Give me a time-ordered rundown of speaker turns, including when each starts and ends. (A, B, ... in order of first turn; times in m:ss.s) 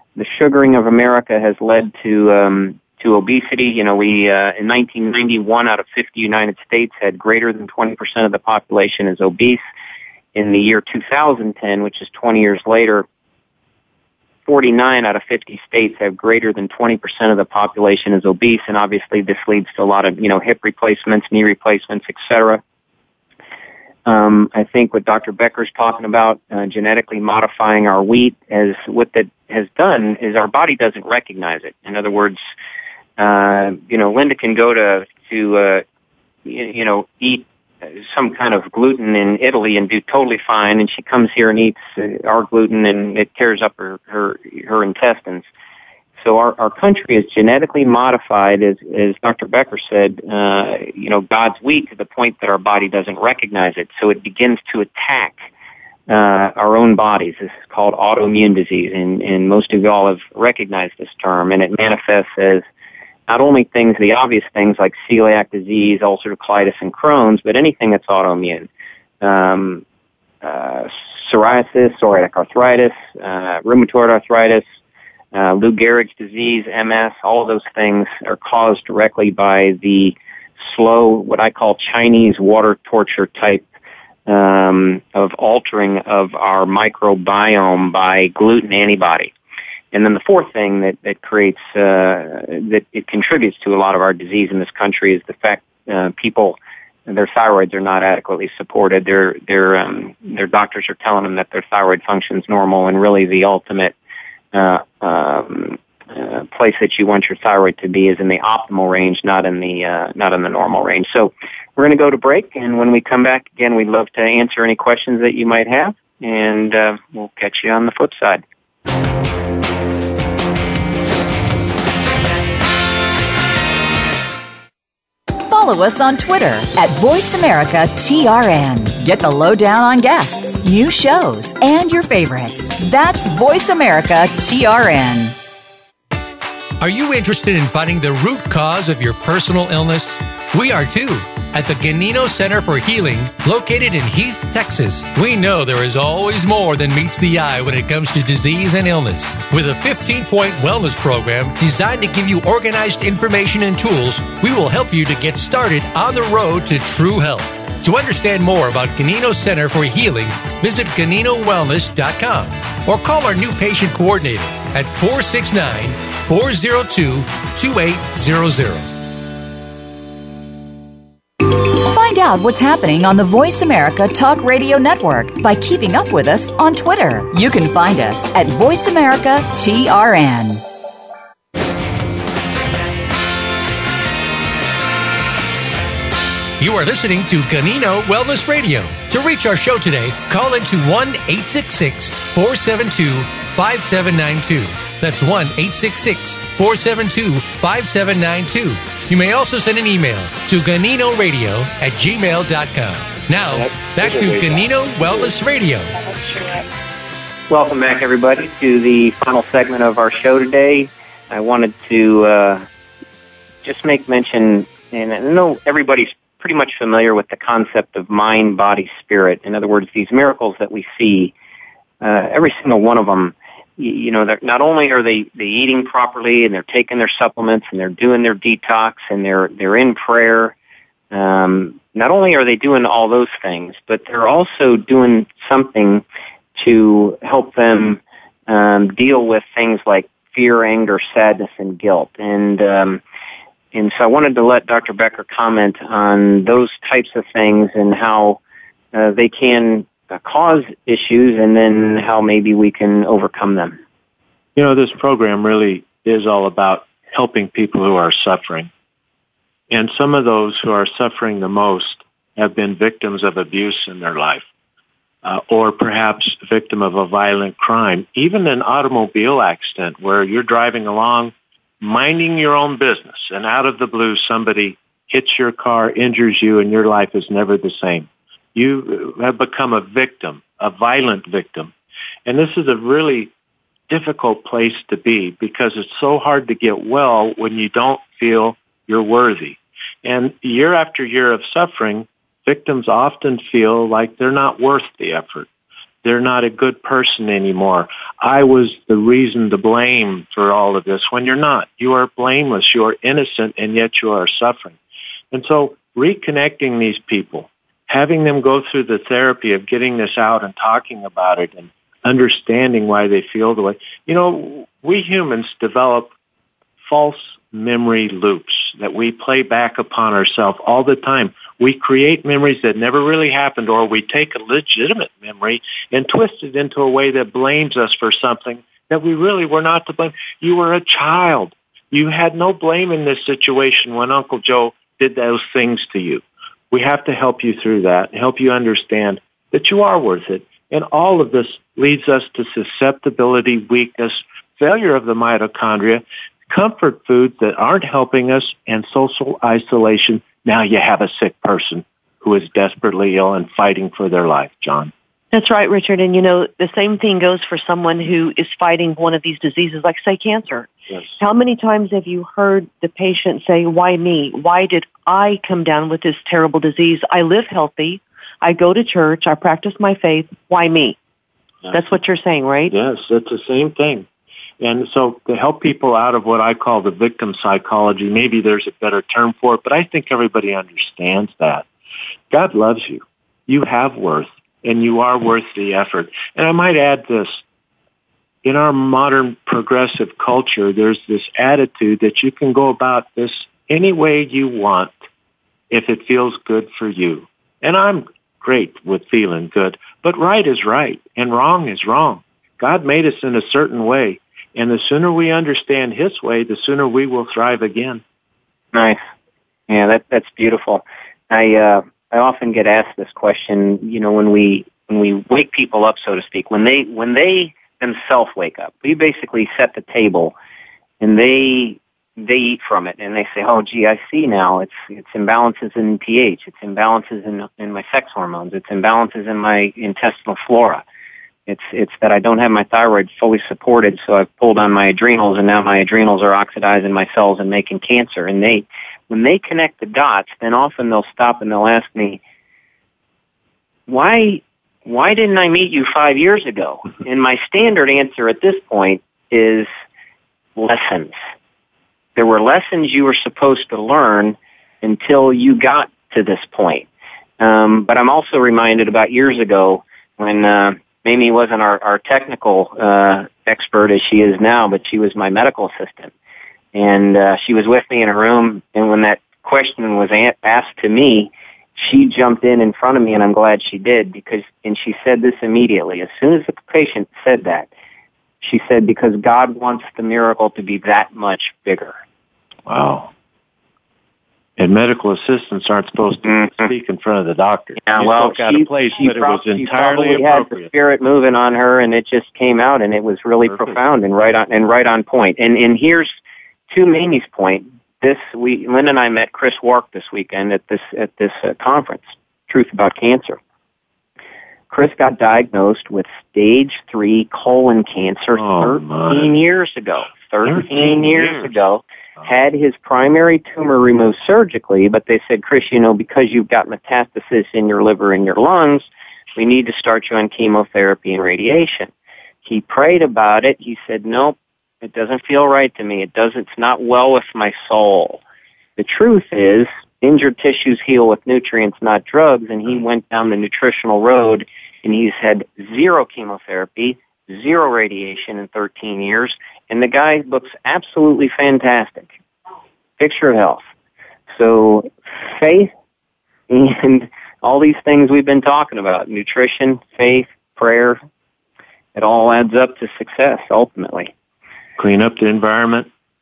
0:00.2-0:09.6 A
0:10.4-0:13.1 A
0:14.5-0:22.6 A
0:24.1-0:32.4 A
0:33.2-0:35.8 A
0:36.5-0:45.5 A
0:46.2-0:55.5 A
0:56.1-1:02.6 A
1:03.3-1:08.7 A
1:09.2-1:09.8 A
1:10.4-1:14.6 A
1:15.3-1:23.6 A
1:24.3-1:29.3 A
1:29.9-1:43.9 A
1:44.5-1:58.4 A
2:05.5-2:15.4 B
2:16.8-2:48.9 C
2:51.5-3:00.6 B
3:06.6-3:26.0 C
3:23.5-3:25.3 D
3:27.5-3:32.7 A
3:33.6-3:41.3 A
3:42.0-3:50.6 A
3:51.1-3:56.0 A
3:56.6-4:03.0 A
4:03.7-4:08.4 A
4:08.9-4:13.8 A
4:14.6-4:18.7 D
4:19.7-4:24.4 D
4:25.2-4:41.7 D
4:42.3-4:43.3 D
4:43.9-4:55.5 D
4:56.0-5:04.8 D
5:05.3-5:16.1 D
5:16.8-5:54.9 D
5:55.3-6:11.0 E
6:11.7-6:12.0 D
6:11.7-6:12.7 E
6:12.7-6:14.1 D
6:14.6-6:21.7 D
6:22.3-6:27.4 D
6:28.4-6:34.9 D
6:35.7-6:48.0 D
6:48.7-6:49.0 A
6:49.7-7:00.4 A
7:01.0-7:10.8 A
7:11.5-7:22.2 A
7:23.9-7:29.7 A
7:30.6-7:31.1 A
7:32.2-7:36.9 A
7:37.4-7:46.1 A
7:46.7-7:57.7 A
7:58.4-8:02.0 A
8:02.7-8:03.1 D
8:04.6-8:10.7 D
8:07.8-8:16.1 A
8:13.5-8:13.8 D
8:16.7-8:23.4 A
8:24.7-8:41.9 A
8:28.4-8:29.3 D
8:30.5-8:31.5 D
8:42.4-8:48.2 A
8:48.8-9:02.1 A
9:03.0-9:03.6 A
9:04.3-9:05.7 A
9:06.5-9:11.0 A
9:12.0-9:14.1 A
9:14.8-9:15.9 D